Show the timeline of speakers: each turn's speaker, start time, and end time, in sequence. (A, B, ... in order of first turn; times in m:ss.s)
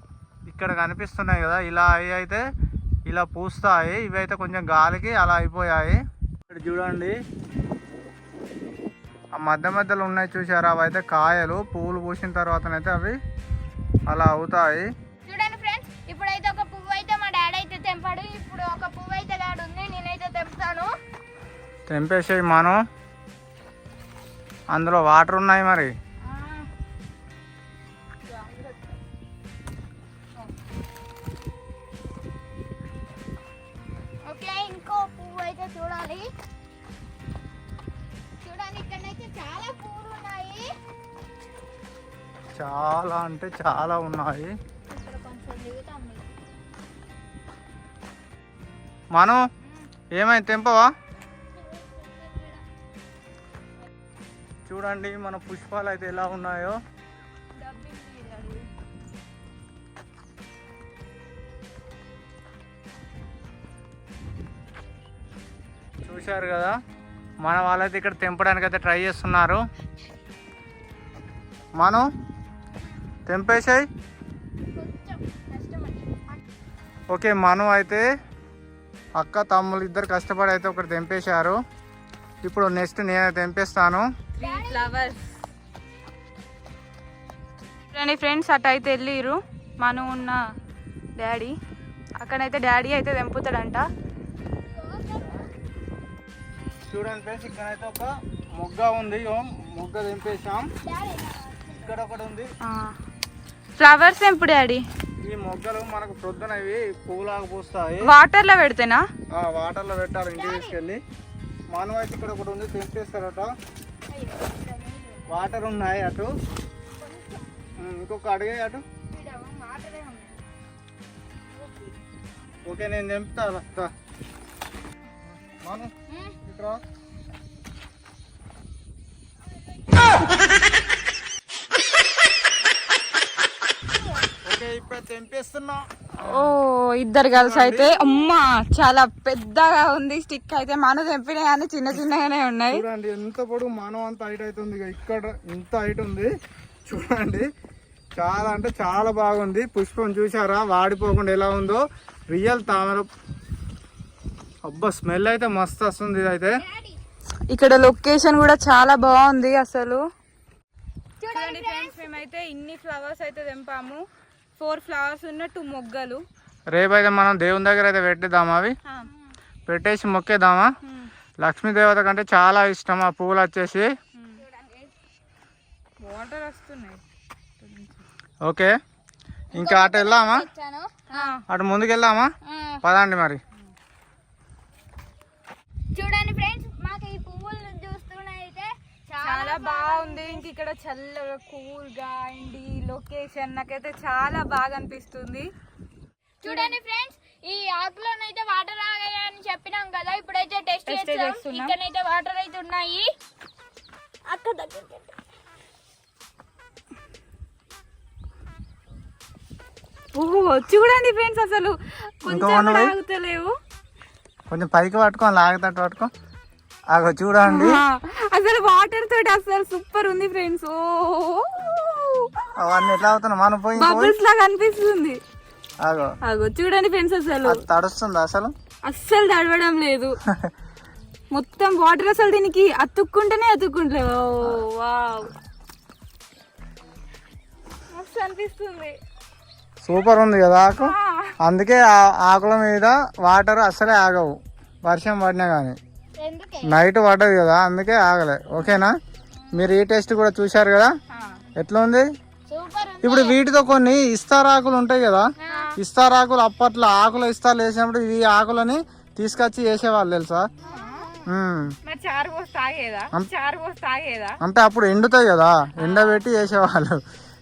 0:00.5-0:02.4 A
0:03.1-0:06.0 A
0:06.5-0:07.2 A
0:09.3-0:13.2 A
0:14.1-0:14.9 A
0:15.2-0:20.9 B
0:21.9-0:22.8 A
0:24.7-0:25.9 A
0:26.3-0:26.6 B
0:34.2-0:36.3 B
0:38.4-0:40.7 B
0:42.5-0:44.5 A
0:44.9-0:46.3 B
0:49.1-0:49.4 A
0:50.2-0:50.9 A
0:51.6-0:52.6 B
0:54.7-0:56.8 A
0:57.6-0:58.7 C
1:06.0-1:06.7 A
1:07.4-1:09.6 A
1:11.8-1:12.0 A
1:13.3-1:13.8 A
1:14.8-1:16.4 B
1:17.1-1:18.0 A
1:19.2-1:21.6 A
1:22.4-1:24.0 A
1:24.4-1:25.3 C
1:24.4-1:25.1 B
1:27.9-1:30.4 C
1:31.2-1:31.6 C
1:32.2-1:33.9 C
1:34.6-1:35.4 B
1:36.9-1:40.7 A
1:40.8-1:42.0 B
1:41.8-1:42.5 A
1:42.6-1:43.0 C
1:43.8-1:44.8 C
1:45.2-1:48.1 A
1:48.0-1:49.0 C
1:49.3-1:51.0 A
1:50.3-1:50.8 B
1:51.7-1:53.5 A
1:54.1-1:55.2 B
1:55.3-1:56.3 A
1:57.8-1:58.8 A
1:59.1-2:00.4 C
2:02.7-2:03.9 A
2:05.6-2:05.9 A
2:06.1-2:06.4 B
2:06.4-2:06.8 A
2:14.4-2:16.5 A
2:16.2-2:22.8 C
2:17.3-2:18.0 A
2:22.7-2:26.3 A
2:26.9-2:27.5 A
2:28.2-2:33.1 A
2:34.6-2:36.5 A
2:36.6-2:37.0 B
2:37.5-2:40.0 C
2:41.2-2:42.1 B
2:41.2-2:44.0 C
2:44.6-2:46.2 C
2:46.7-2:48.7 A
2:49.7-2:50.7 A
2:50.8-2:51.1 C
2:51.4-2:53.9 A
2:54.2-2:54.4 C
2:54.4-2:54.9 B
2:56.0-2:57.0 C
2:57.6-2:58.1 C
2:58.4-2:58.7 A
2:59.5-3:01.3 B
2:59.6-3:00.4 A
3:01.1-3:01.4 C
3:01.5-3:02.3 A
3:02.4-3:02.8 B
3:02.8-3:03.4 A
3:05.9-3:10.4 B
3:09.2-3:15.5 C
3:16.4-3:23.1 B
3:16.4-3:16.8 C
3:20.9-3:21.8 C
3:24.3-3:25.1 B
3:30.1-3:33.5 C
3:32.3-3:32.9 A
3:34.5-3:36.1 A
3:36.9-3:37.8 A
3:37.4-3:42.5 C
3:42.6-3:44.2 A
3:43.8-3:45.2 C
3:45.8-3:46.1 A
3:46.2-3:47.6 C
3:47.4-3:48.5 A
3:48.8-3:50.1 C
3:51.3-3:55.3 C
3:57.9-3:59.0 C
3:59.8-4:05.8 A
4:00.8-4:01.3 C
4:06.2-4:06.8 B
4:06.6-4:08.9 A
4:09.5-4:10.9 A
4:11.1-4:11.4 C
4:11.6-4:12.0 A
4:12.5-4:13.4 B
4:13.0-4:15.2 A
4:15.4-4:15.7 B
4:15.5-4:15.7 C
4:15.8-4:20.5 A
4:20.6-4:21.3 B
4:20.6-4:21.1 C
4:21.3-4:21.7 A
4:21.8-4:24.4 C
4:24.4-4:27.0 A
4:25.8-4:26.2 C